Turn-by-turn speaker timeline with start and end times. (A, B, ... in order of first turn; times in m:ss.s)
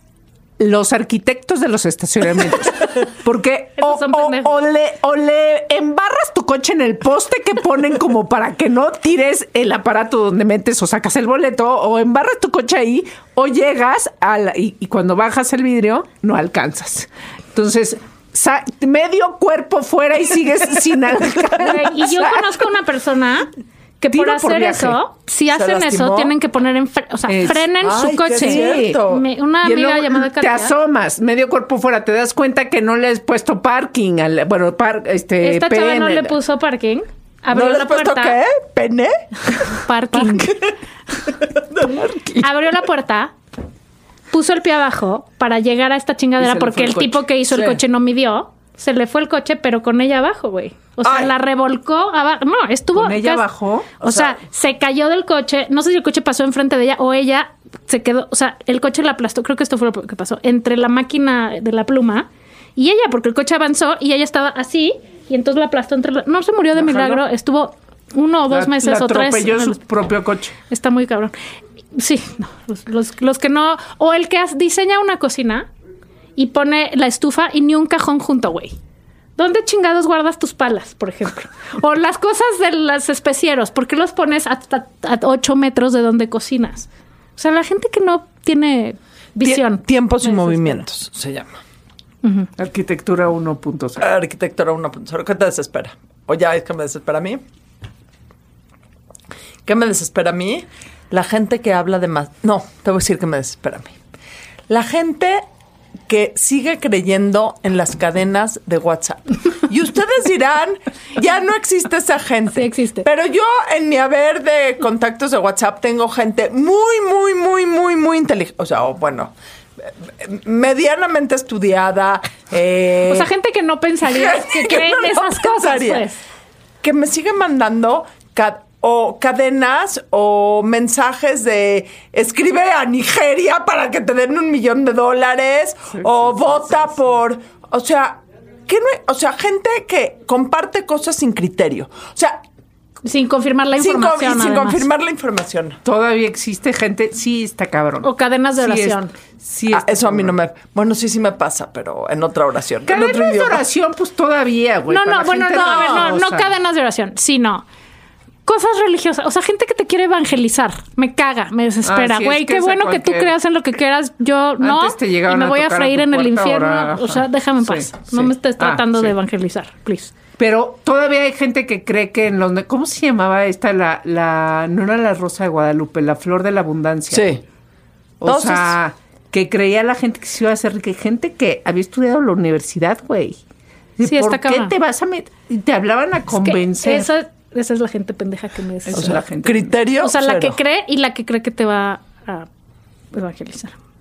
0:00.6-0:22.5 A
0:03.8-0:04.6 B
0:21.6-0:23.5 B
0:24.0-0:30.7 B
0:24.1-0:25.0 A
0:25.5-0:26.3 C
0:27.3-0:27.7 A
0:27.8-0:29.2 C
0:28.3-0:29.0 A
0:29.6-0:36.3 A
0:35.4-0:38.4 B
0:37.5-0:39.2 C
0:39.8-0:40.6 B
0:40.1-0:42.1 C
0:42.4-0:43.3 B
0:44.3-0:53.4 B
0:46.4-0:47.8 A
0:51.0-0:51.3 C
0:52.9-0:53.9 A
0:54.0-1:09.8 B
0:54.0-0:54.4 C
1:06.7-1:07.2 A
1:08.5-1:10.6 A
1:10.7-1:11.3 B
1:11.9-1:15.7 B
1:16.4-1:18.7 B
1:19.4-1:30.8 B
1:29.4-1:31.6 C
1:32.2-1:32.5 B
1:32.6-1:34.0 A
1:34.0-1:37.4 C
1:39.6-1:44.0 C
1:44.7-1:45.4 C
1:46.1-2:03.3 C
1:52.5-1:53.0 B
2:03.1-2:06.2 B
2:04.0-2:06.0 C
2:06.8-2:22.4 C
2:23.0-2:24.8 B
2:23.8-2:25.8 C
2:25.8-2:30.3 A
2:28.0-2:29.1 B
2:29.7-2:33.6 C
2:32.9-2:36.5 A
2:34.9-2:37.6 B
2:38.4-2:50.1 B
2:41.8-2:43.3 A
2:44.6-2:49.1 A
2:50.4-2:57.3 A
2:57.1-2:57.4 C
2:58.2-3:03.4 A
2:58.2-2:58.7 C
3:04.0-3:07.1 A
3:04.0-3:04.7 B
3:06.4-3:09.2 B
3:08.8-3:09.7 A
3:08.9-3:10.6 C
3:10.0-3:12.5 B
3:13.1-3:13.8 B